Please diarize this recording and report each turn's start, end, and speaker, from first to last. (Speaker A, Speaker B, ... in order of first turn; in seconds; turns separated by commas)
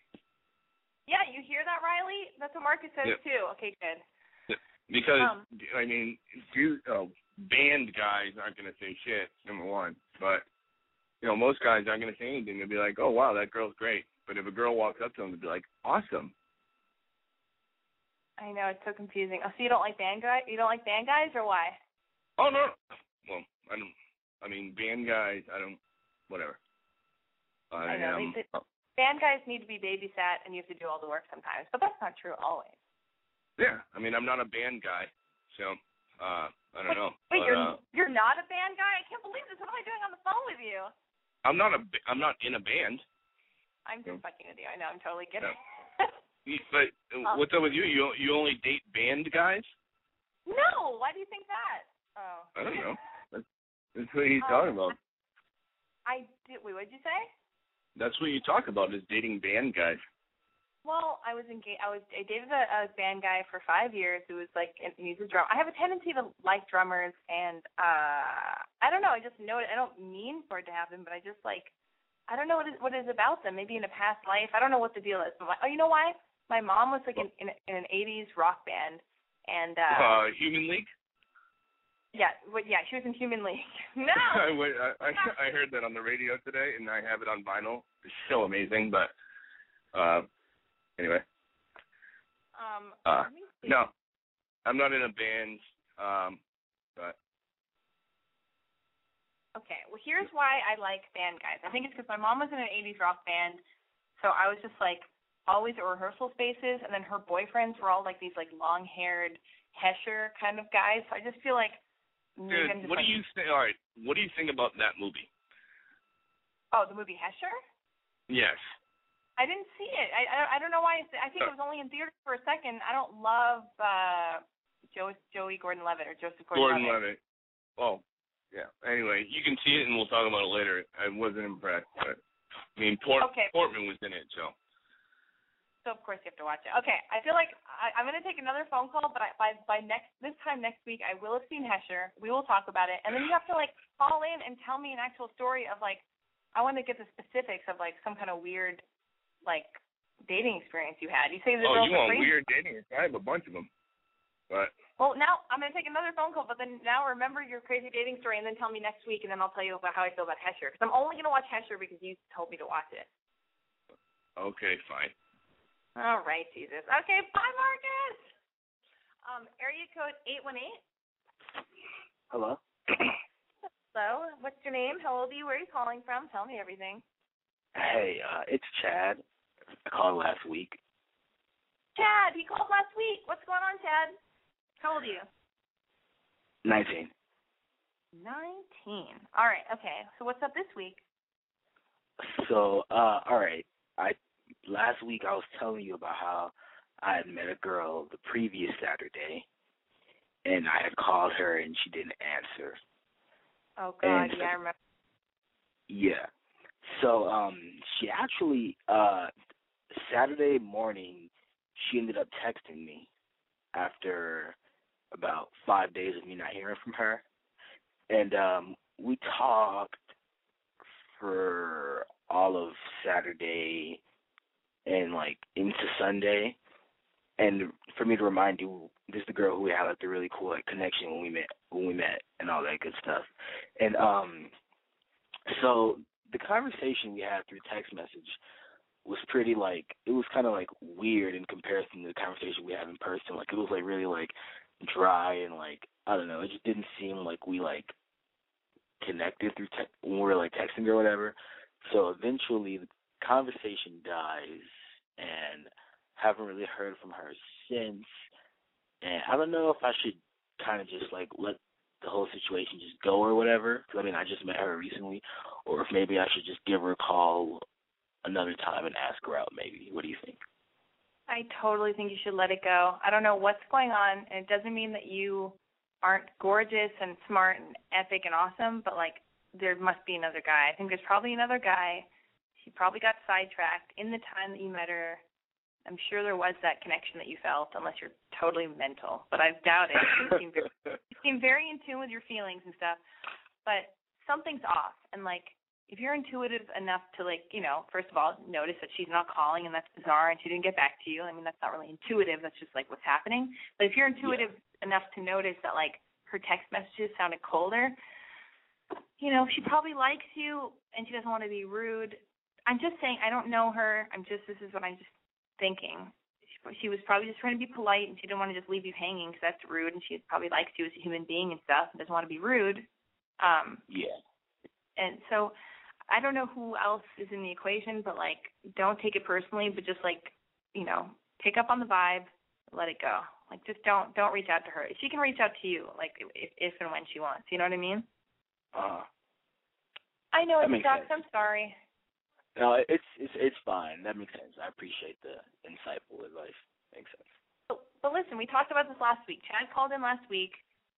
Speaker A: 1.1-4.0, Speaker B: 4.5-10.4, Speaker A: 5.2-5.4, Speaker B: 11.2-16.3, Speaker A: 18.4-21.8, Speaker B: 22.4-25.8, Speaker B: 26.3-26.6, Speaker B: 27.7-28.6, Speaker A: 27.9-28.4, Speaker A: 28.9-32.7, Speaker B: 33.6-37.8, Speaker A: 36.9-40.9, Speaker B: 41.4-43.0, Speaker A: 43.9-46.1, Speaker B: 46.5-49.7, Speaker A: 50.5-52.8, Speaker B: 52.5-55.0, Speaker A: 54.4-55.0, Speaker A: 56.0-57.3, Speaker B: 58.0-60.0, Speaker A: 60.8-71.7, Speaker A: 72.3-80.2, Speaker B: 79.9-80.9, Speaker A: 82.1-84.5, Speaker B: 84.2-89.1, Speaker B: 89.9-90.3, Speaker B: 91.0-91.2, Speaker A: 92.5-93.7, Speaker B: 93.0-93.9, Speaker B: 94.7-96.4, Speaker A: 99.5-103.6, Speaker A: 104.2-111.8, Speaker A: 112.4-113.2, Speaker B: 112.5-115.3, Speaker A: 116.7-117.5, Speaker B: 118.3-118.7, Speaker A: 119.4-127.0, Speaker B: 126.5-127.2, Speaker B: 127.8-128.0, Speaker B: 128.5-132.2, Speaker B: 132.8-134.5, Speaker A: 133.2-133.5, Speaker A: 135.8-146.0, Speaker A: 146.5-148.8, Speaker A: 149.4-152.3, Speaker B: 151.6-153.7, Speaker A: 155.0-163.1, Speaker B: 164.4-165.1, Speaker A: 165.9-168.2, Speaker A: 169.2-170.8, Speaker C: 172.3-173.1, Speaker A: 173.9-177.0, Speaker C: 177.7-179.2, Speaker C: 179.8-180.8, Speaker A: 181.9-184.2, Speaker A: 184.8-185.3, Speaker C: 186.6-187.1, Speaker A: 188.1-191.0, Speaker C: 192.2-199.4, Speaker C: 200.4-202.8, Speaker A: 203.8-204.7, Speaker C: 204.0-204.5, Speaker C: 205.9-206.3, Speaker C: 206.8-209.3, Speaker C: 209.9-213.1, Speaker C: 213.7-214.5, Speaker C: 215.1-217.2, Speaker C: 218.1-220.0, Speaker C: 221.1-224.0, Speaker C: 224.8-226.6, Speaker C: 227.4-234.5, Speaker C: 235.5-238.4, Speaker C: 239.0-247.9, Speaker C: 249.0-258.2, Speaker C: 259.0-267.6, Speaker C: 268.2-270.4, Speaker A: 271.3-282.1, Speaker A: 282.6-285.2, Speaker A: 285.9-293.0, Speaker A: 293.6-307.9, Speaker A: 309.2-316.1, Speaker A: 316.6-322.9, Speaker A: 323.4-323.8, Speaker C: 323.9-324.1, Speaker A: 325.0-325.5, Speaker A: 326.1-338.1, Speaker C: 338.7-339.1, Speaker A: 340.3-341.7, Speaker C: 340.6-341.1, Speaker C: 342.6-347.2, Speaker A: 347.7-350.6